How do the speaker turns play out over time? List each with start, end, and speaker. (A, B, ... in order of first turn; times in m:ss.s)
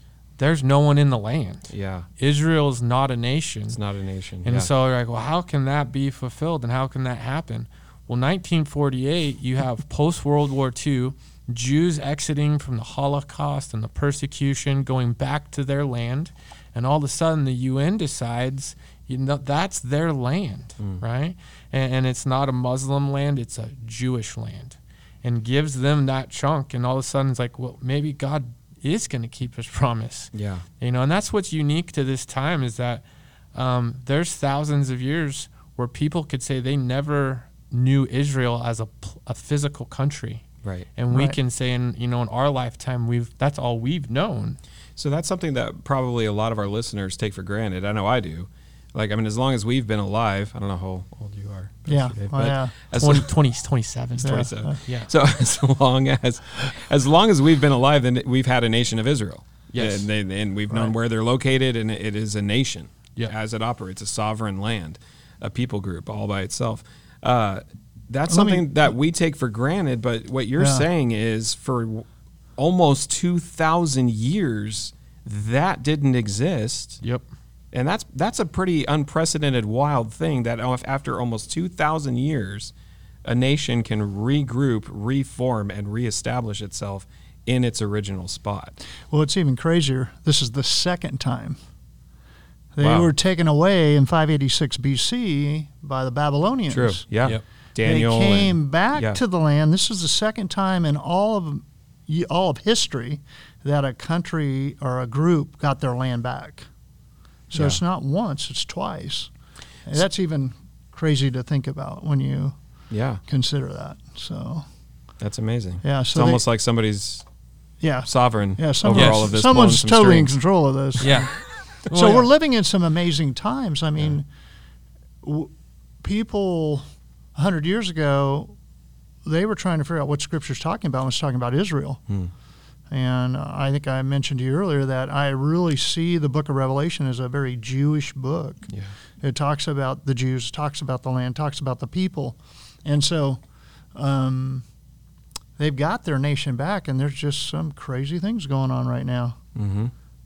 0:00.4-0:03.8 A
0:01.7-0:02.1 B
0:03.7-0:04.7 B
0:04.4-0:44.6 A
0:30.3-0:30.7 B
0:40.6-0:40.9 B
0:41.1-0:41.4 C
0:45.0-0:53.3 B
0:51.9-0:52.8 C
0:52.9-0:55.1 A
0:54.2-1:17.0 B
0:54.2-0:54.8 C
0:59.7-1:00.1 A
1:08.3-1:08.7 C
1:10.6-1:10.9 C
1:17.7-1:22.7 B
1:23.2-1:28.8 B
1:29.1-1:31.6 C
1:32.8-1:37.1 C
1:32.8-1:33.1 B
1:36.7-1:39.2 B
1:37.8-1:46.7 C
1:47.5-1:49.3 C
1:47.5-1:47.8 B
1:49.9-1:52.6 C
1:52.9-1:53.2 B
1:53.3-1:54.6 C
1:55.2-1:57.2 B
1:55.8-1:56.4 C
1:57.8-2:04.3 C
1:58.1-2:00.3 B
1:58.9-1:59.3 A
2:01.0-2:02.3 A
2:01.0-2:01.3 B
2:05.2-2:05.5 C
2:06.0-2:08.5 C
2:09.2-2:12.0 C
2:12.9-2:23.4 C
2:23.9-2:24.6 C
2:25.6-2:29.4 C
2:29.6-2:29.9 B